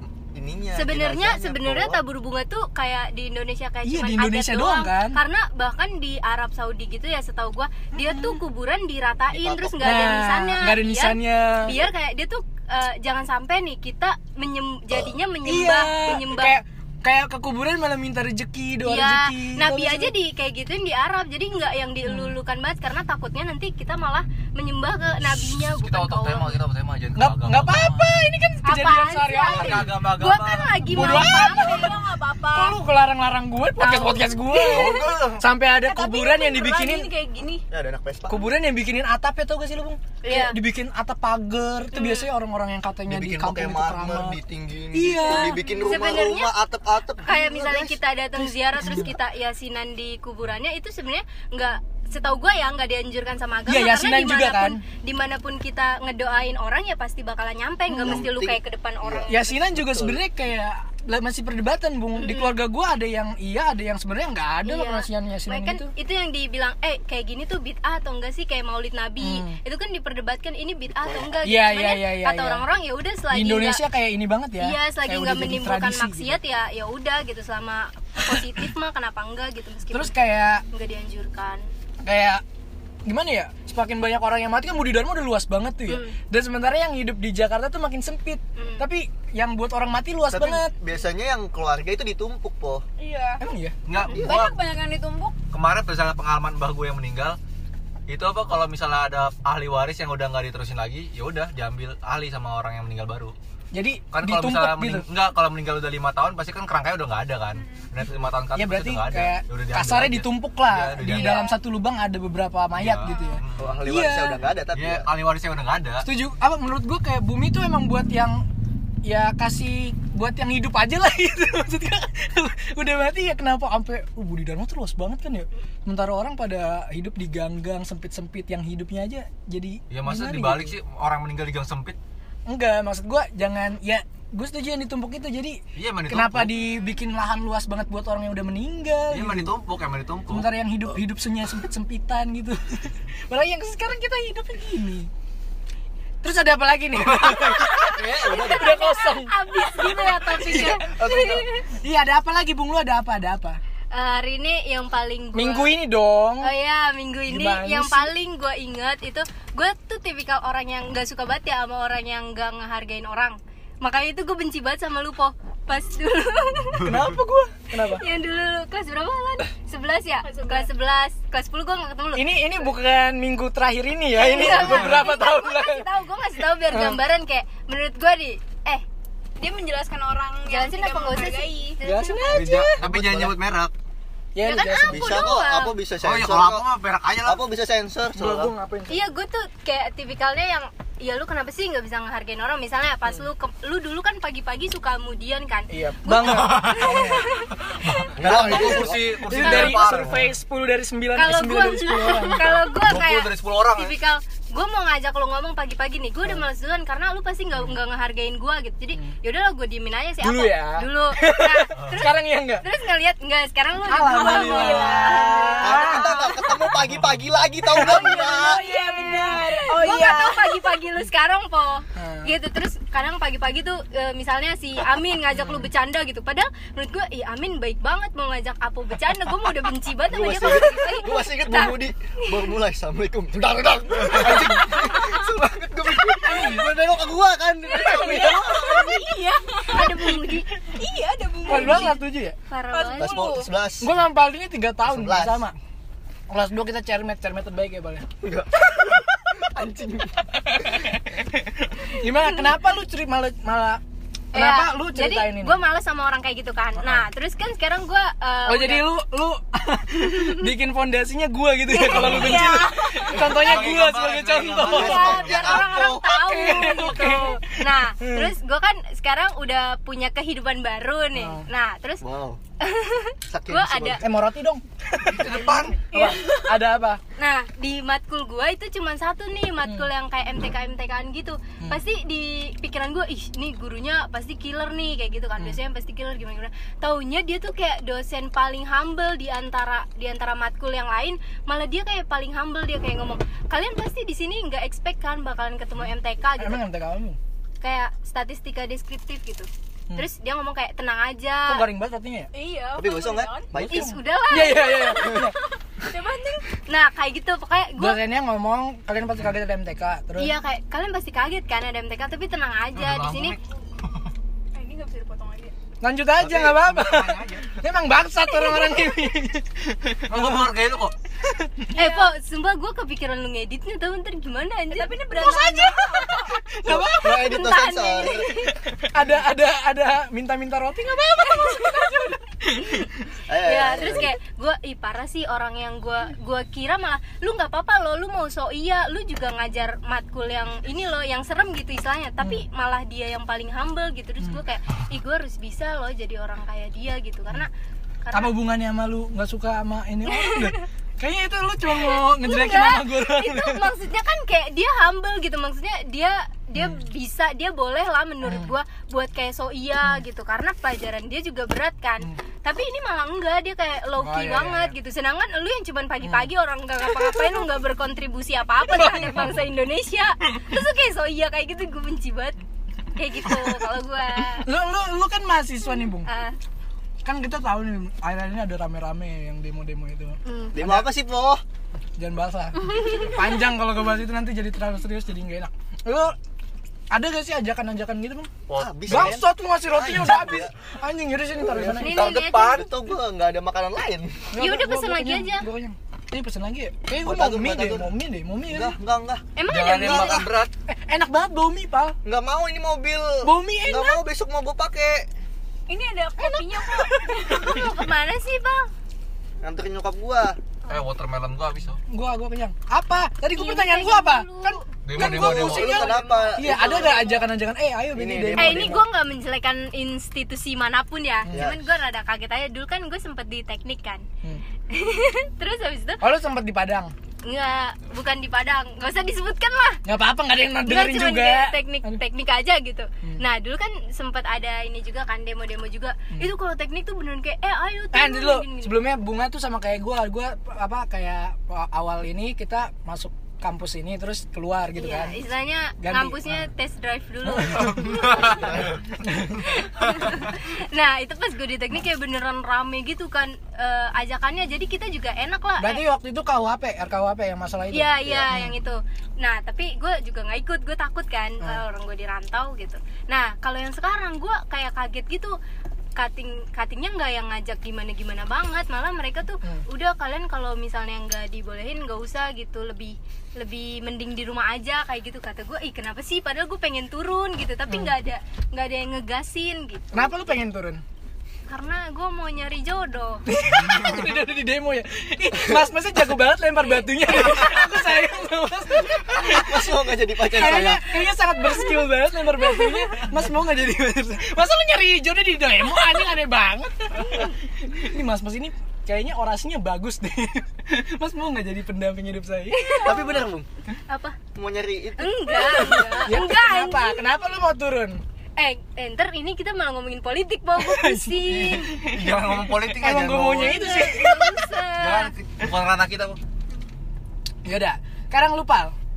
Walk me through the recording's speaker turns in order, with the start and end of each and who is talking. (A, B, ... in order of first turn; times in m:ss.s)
0:00.3-0:02.0 A
0:00.7-0:16.6 B
0:03.8-0:05.2 C
0:08.0-0:08.4 C
0:09.3-0:10.2 A
0:09.8-0:11.8 C
0:15.4-0:20.1 C
0:18.8-0:26.6 B
0:22.0-0:22.4 C
0:25.7-0:28.1 D
0:27.2-0:29.9 C
0:28.6-0:32.0 B
0:29.5-0:30.8 D
0:30.9-0:32.8 E
0:30.9-0:31.9 C
0:32.5-0:37.1 C
0:33.8-0:35.0 B
0:34.7-0:35.4 D
0:35.8-0:37.6 E
0:37.7-0:38.4 A
0:38.3-0:44.4 C
0:40.2-0:40.6 B
0:41.9-0:42.3 B
0:43.1-0:48.0 A
0:44.9-0:45.6 C
0:45.2-0:46.5 B
0:47.2-0:59.6 B
0:48.4-0:49.1 C
0:53.7-0:54.8 C
0:57.9-0:58.3 C
0:58.0-1:00.2 A
0:59.3-1:05.9 C
1:02.2-1:02.5 B
1:04.6-1:13.8 B
1:09.2-1:09.6 C
1:10.9-1:11.4 A
1:11.4-1:12.6 C
1:13.3-1:16.4 C
1:14.6-1:20.1 B
1:18.2-1:18.6 C
1:19.9-1:20.6 C
1:20.7-1:21.7 B
1:22.0-1:22.4 C
1:23.0-1:30.7 C
1:25.9-1:26.2 B
1:28.6-1:28.8 B
1:30.3-1:32.8 A
1:33.0-1:33.4 E
1:33.4-1:33.8 C
1:33.9-1:34.6 D
1:34.1-1:34.4 A
1:34.2-1:35.4 E
1:35.5-1:37.4 D
1:38.1-1:43.4 D
1:43.7-1:45.1 C
1:44.1-1:51.4 D
1:48.5-1:54.4 C
1:51.1-1:51.5 B
1:51.2-1:51.5 E
1:52.8-1:53.7 D
1:53.1-1:53.4 E
1:53.6-1:55.1 A
1:54.7-1:56.1 D
1:56.0-1:58.4 C
1:59.0-2:10.8 C
2:09.9-2:12.0 D
2:12.5-2:19.5 C
2:15.8-2:16.6 D
2:19.1-2:20.5 D
2:20.3-2:25.1 C
2:26.2-2:29.4 C
2:27.1-2:28.4 D
2:27.9-2:31.7 B
2:27.9-2:28.8 A
2:30.2-2:30.8 C
2:30.6-2:31.5 A
2:31.8-2:33.6 C
2:33.9-2:35.8 B
2:35.3-2:36.5 C
2:36.4-2:47.0 B
2:37.3-2:38.1 C
2:46.8-2:48.0 C
2:47.8-2:52.3 B
2:50.2-2:50.7 E
2:52.1-2:55.9 C
2:54.1-2:58.8 B
2:54.6-2:54.9 D
2:56.7-2:57.0 C
2:59.4-3:01.8 E
3:00.5-3:02.7 B
3:01.8-3:02.8 C
3:02.3-3:03.7 D
3:02.8-3:03.4 A
3:04.4-3:05.2 C
3:04.4-3:05.8 B
3:04.9-3:06.7 A
3:06.0-3:07.4 D
3:07.2-3:08.5 A
3:08.2-3:09.1 C
3:08.9-3:17.5 B
3:15.7-3:17.3 C
3:16.2-3:17.0 D
3:17.7-3:20.3 D
3:18.2-3:19.0 A
3:18.2-3:22.5 C
3:19.3-3:20.0 B
3:21.2-3:36.3 B
3:22.4-3:24.0 D
3:30.2-3:32.6 C
3:31.7-3:32.0 D
3:33.9-3:36.2 C
3:34.1-3:36.2 E
3:35.6-3:38.6 A
3:37.7-3:40.0 C
3:37.7-3:40.7 E
3:38.0-3:52.5 B
3:42.0-3:42.3 C
3:45.4-3:45.7 C
3:50.1-3:58.8 A
3:54.1-3:54.9 C
3:54.8-3:55.3 E
3:56.2-3:56.7 E
3:57.7-4:00.1 E
3:57.9-3:59.0 C
3:59.7-4:00.5 B
4:00.7-4:02.0 E
4:01.4-4:02.4 C
4:01.5-4:03.3 B
4:02.7-4:03.5 E
4:03.0-4:03.9 A
4:03.8-4:05.6 C
4:04.8-4:05.4 A
4:06.3-4:08.1 C
4:08.2-4:10.2 A
4:11.8-4:13.8 C
4:14.3-4:15.6 C
4:14.3-4:18.9 B
4:16.8-4:17.1 C
4:18.5-4:25.3 C
4:20.2-4:20.5 B
4:21.7-4:23.3 B
4:21.9-4:23.4 E
4:22.0-4:22.4 D
4:23.3-4:25.7 D
4:24.6-4:32.0 B
4:24.6-4:26.1 A
4:25.9-4:28.3 C
4:31.2-4:31.5 C
4:32.0-4:32.4 A
4:32.6-4:34.0 B
4:33.3-4:34.0 A
4:34.0-4:37.0 C
4:35.0-4:35.9 D
4:35.9-4:36.6 E
4:37.2-4:56.6 B
4:56.4-4:57.2 C
4:57.6-5:01.6 B
5:01.5-5:02.3 C
5:02.3-5:03.5 E
5:02.7-5:04.0 A
5:03.6-5:05.4 C
5:03.7-5:05.2 B
5:04.4-5:05.3 E
5:05.8-5:06.5 E
5:06.7-5:08.0 B
5:07.8-5:10.3 C
5:10.2-5:13.4 B
5:12.8-5:14.1 D
5:14.5-5:15.6 E
5:15.8-5:20.5 C
5:16.2-5:17.6 D
5:18.5-5:18.8 B
5:20.1-5:20.9 D
5:21.3-5:21.7 C
5:21.7-5:25.8 B
5:21.8-5:22.1 E
5:24.7-5:26.4 E
5:25.2-5:27.3 C
5:26.6-5:28.4 A
5:27.0-5:28.6 B
5:28.8-5:32.9 C
5:31.3-5:32.1 B
5:33.3-5:34.2 A
5:33.4-5:47.5 B
5:48.0-5:48.4 B
5:48.1-5:53.7 C
5:50.1-5:50.6 B
5:51.7-6:12.4 B
5:56.6-5:56.8 C
5:58.2-5:58.5 C
6:04.0-6:04.8 C
6:06.0-6:06.3 C
6:08.6-6:09.4 C
6:13.0-6:14.5 B
6:14.3-6:16.1 C
6:16.0-6:16.4 B
6:17.0-6:20.9 C
6:20.5-6:21.4 A
6:22.0-6:26.2 C
6:26.9-6:28.3 C
6:28.5-6:29.2 D
6:28.5-6:30.5 A
6:28.9-6:32.0 C
6:31.4-6:34.3 A
6:31.8-6:32.7 B
6:31.9-6:32.7 D
6:34.3-6:38.8 C
6:34.4-6:35.5 B
6:37.0-6:37.9 A
6:38.5-6:39.3 A
6:39.4-6:40.3 B
6:39.5-6:40.5 D
6:39.8-6:40.2 A
6:40.7-6:42.0 C
6:42.0-6:45.1 A
6:43.2-6:44.0 C
6:45.7-6:47.6 E
6:46.2-6:47.7 C
6:47.3-6:48.7 B
6:49.4-6:50.4 A
6:50.7-6:51.8 D
6:51.9-6:58.9 C
6:53.4-6:54.6 B
6:54.8-6:56.0 D
6:55.0-6:57.1 A
6:55.7-6:56.4 E
6:56.0-6:57.0 B
6:57.9-6:58.9 A
6:58.4-7:04.0 B
7:01.3-7:01.6 A
7:04.7-7:06.0 B
7:06.0-7:06.9 C
7:07.2-7:09.8 B
7:09.8-7:12.0 C
7:10.6-7:18.8 B
7:17.9-7:25.2 C
7:24.8-7:28.6 B
7:25.8-7:26.5 C
7:27.2-7:28.0 C
7:27.6-7:28.5 D
7:28.3-7:28.8 A
7:29.0-7:29.6 C
7:29.5-7:35.8 B
7:35.6-7:38.6 C
7:37.7-7:45.4 B
7:38.0-7:38.3 A
7:46.0-8:00.2 B
7:57.7-7:57.9 C
7:59.9-8:00.8 C
8:01.5-8:03.2 B
8:03.3-8:22.8 C
8:03.6-8:04.2 D
8:09.0-8:11.0 A
8:22.5-8:23.2 B
8:22.8-8:23.5 A
8:23.9-8:24.2 B
8:24.4-8:26.0 A
8:25.0-8:27.1 B
8:26.0-8:28.0 C
8:28.4-8:31.7 B
8:30.6-8:34.4 C
8:31.3-8:33.7 D
8:33.4-8:35.1 B
8:34.8-8:36.2 D
8:37.4-8:38.8 C